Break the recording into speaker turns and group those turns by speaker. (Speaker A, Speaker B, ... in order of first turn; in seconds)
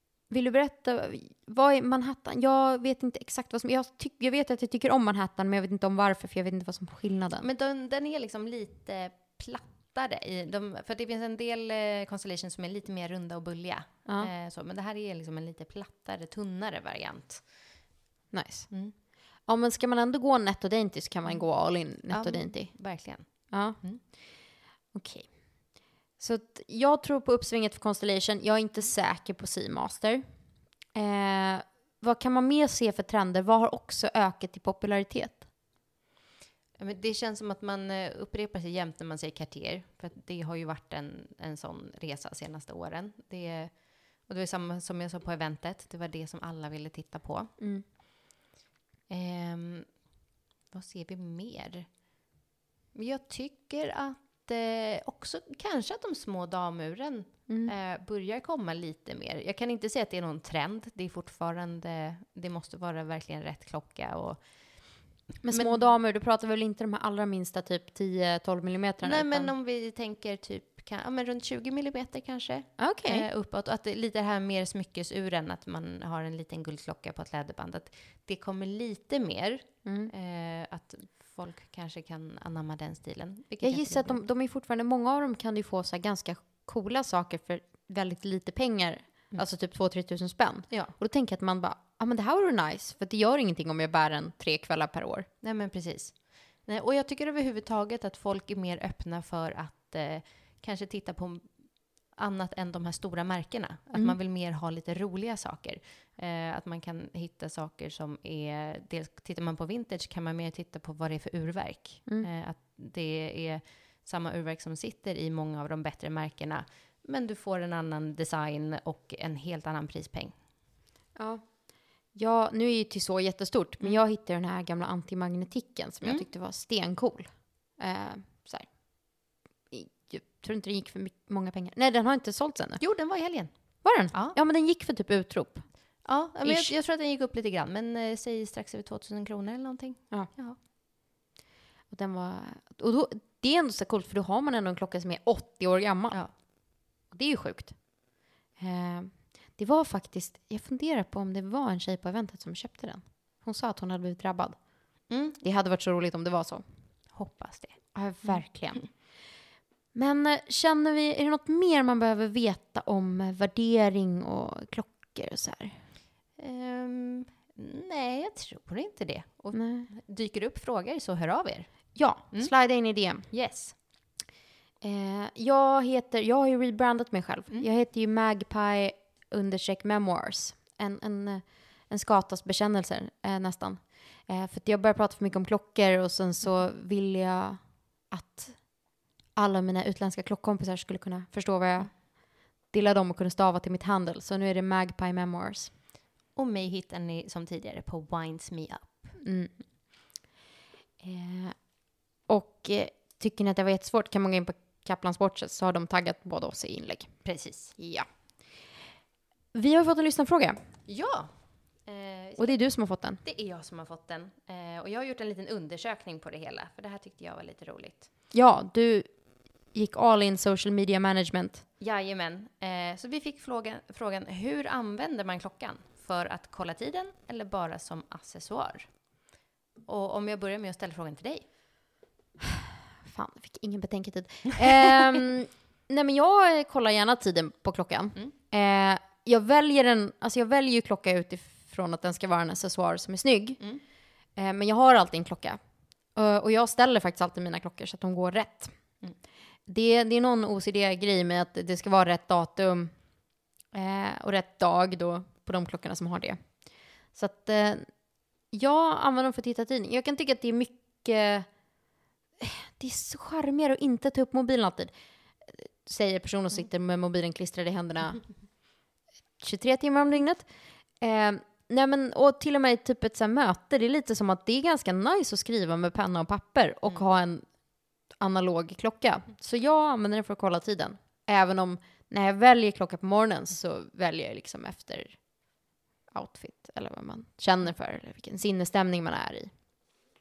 Speaker A: 0.3-7.5, 14.1-14.3, 18.3-35.5, 47.6-47.9, 57.5-57.7, 65.4-69.5, 72.8-73.3, 79.8-80.1, 83.6-95.3, 121.2-132.8, 133.8-136.7, 141.9-156.7, 157.9-159.2, 159.9-165.8, 169.5-169.9, 171.9-173.3, 174.8-195.7, 199.2-200.2, 201.0-208.7, 209.5-210.6, 212.4-213.2, 218.3-221.7, 233.0-243.7, 244.3-249.0, 249.7-261.6, 262.4-268.7, 269.4-289.5
Speaker B: 7.4-17.9, 18.7-18.9, 21.2-24.0, 36.8-47.5, 49.1-50.1, 50.7-52.0, 52.9-65.9, 69.0-84.2, 95.4-120.3, 126.0-126.3, 132.8-134.4, 136.0-140.6, 146.1-146.3, 155.1-155.4, 157.1-158.5, 166.4-173.8, 196.3-199.2, 207.2-207.8, 210.9-212.7, 213.2-218.1, 221.8-229.3, 229.8-231.5